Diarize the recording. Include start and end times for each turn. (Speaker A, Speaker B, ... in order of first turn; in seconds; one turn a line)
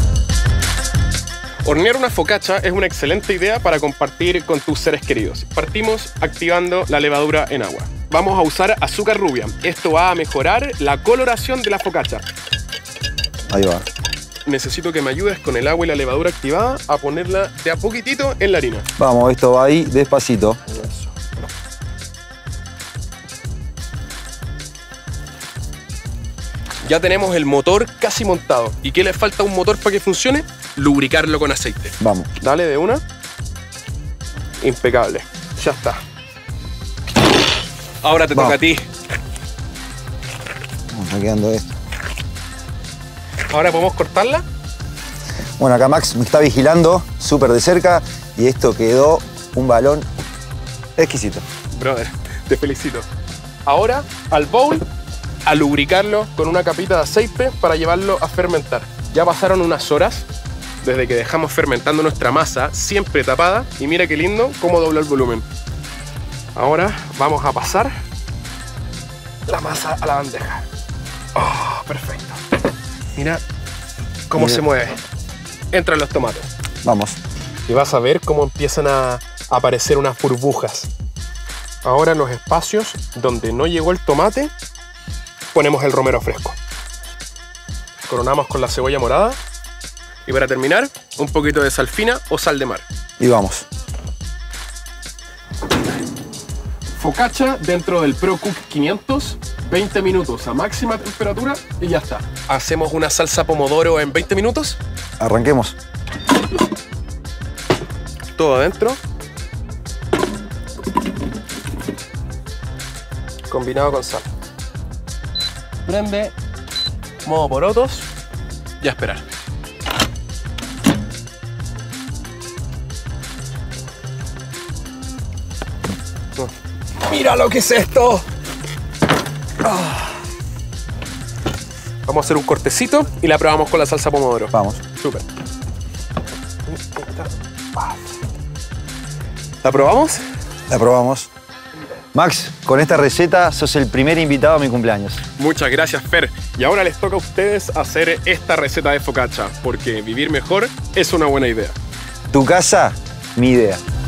Speaker A: 1.6-12.2
Speaker B: 13.5-13.9
Speaker A: 14.5-18.9
Speaker B: 19.0-20.6
Speaker A: 26.8-33.0
Speaker B: 32.0-32.3
Speaker A: 34.6-36.0
Speaker A: 38.0-38.9
Speaker B: 40.9-41.7
Speaker A: 43.5-44.4
Speaker B: 45.6-50.1
Speaker B: 51.0-51.4
Speaker A: 51.7-53.1
Speaker A: 53.7-54.9
Speaker A: 55.5-60.3
Speaker A: 60.8-65.5
Speaker A: 66.5-68.0
Speaker A: 69.5-70.7
Speaker A: 71.3-72.4
Speaker A: 73.2-73.4
Speaker A: 74.3-75.0
Speaker B: 74.4-74.6
Speaker A: 75.7-76.5
Speaker B: 76.8-77.2
Speaker A: 77.7-80.9
Speaker A: 81.8-84.5
Speaker A: 85.5-86.6
Speaker A: 88.1-89.4
Speaker A: 90.3-92.8
Speaker B: 93.2-93.7
Speaker A: 97.0-104.8
Speaker B: 105.2-105.8
Speaker A: 108.4-109.0
Speaker A: 113.5-114.3
Speaker A: 115.9-116.3
Speaker A: 117.2-118.1
Speaker A: 118.8-119.2
Speaker A: 127.0-128.2
Speaker A: 129.6-130.1
Speaker A: 132.1-135.2
Speaker B: 134.5-134.8
Speaker A: 136.8-137.3
Speaker A: 139.6-140.2
Speaker B: 140.7-141.3
Speaker B: 142.1-145.2
Speaker A: 145.4-151.8
Speaker B: 152.3-153.8